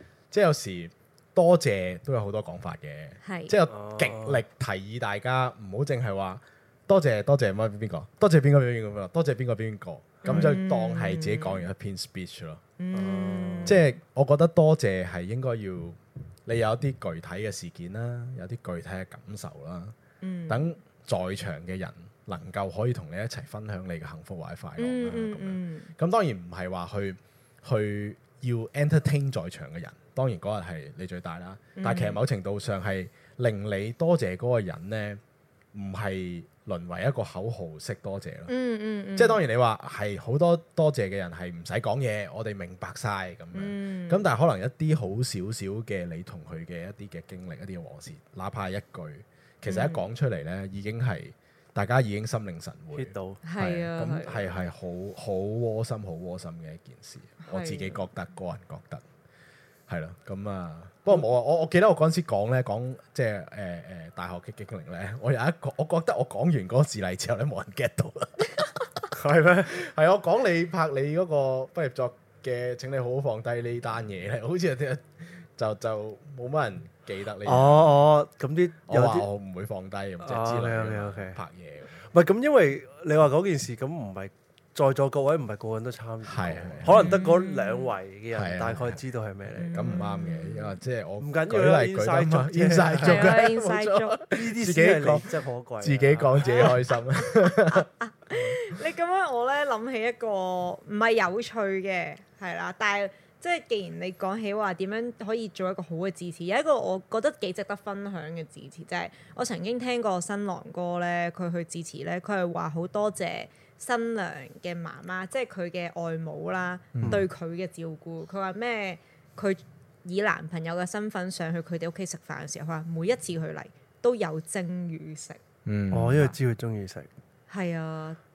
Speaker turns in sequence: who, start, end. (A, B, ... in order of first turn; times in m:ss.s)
0:00.3-0:12.6 A
0:03.2-0:03.6 B
0:03.7-0:04.4 C
0:10.2-0:10.5 C
0:10.2-0:11.7 B
0:12.8-0:13.8 B
0:12.9-0:13.8 C
0:13.7-0:19.9 A
0:20.2-0:20.8 B
0:20.5-0:35.2 A
0:24.8-0:25.9 B
0:31.8-0:32.2 B
0:35.7-0:38.5 A
0:38.5-0:39.4 B
0:39.2-0:59.0 A
0:43.5-0:44.3 B
0:49.7-0:50.0 B
0:52.9-0:53.4 C
0:53.4-0:54.5 B
0:57.4-0:58.1 B
0:59.9-1:18.0 A
1:09.1-1:09.7 C
1:17.4-1:19.3 C
1:18.9-1:22.0 A
1:20.2-1:21.4 C
1:22.0-1:29.7 C
1:26.2-1:27.1 A
1:26.9-1:27.9 B
1:28.3-1:29.0 A
1:29.6-1:30.8 B
1:29.6-1:38.6 A
1:31.2-1:33.4 C
1:33.0-1:34.2 B
1:34.3-1:36.7 C
1:36.4-2:05.4 B
1:57.0-1:57.2 A
2:05.7-2:06.3 A
2:05.9-2:07.1 C
2:07.5-2:08.2 B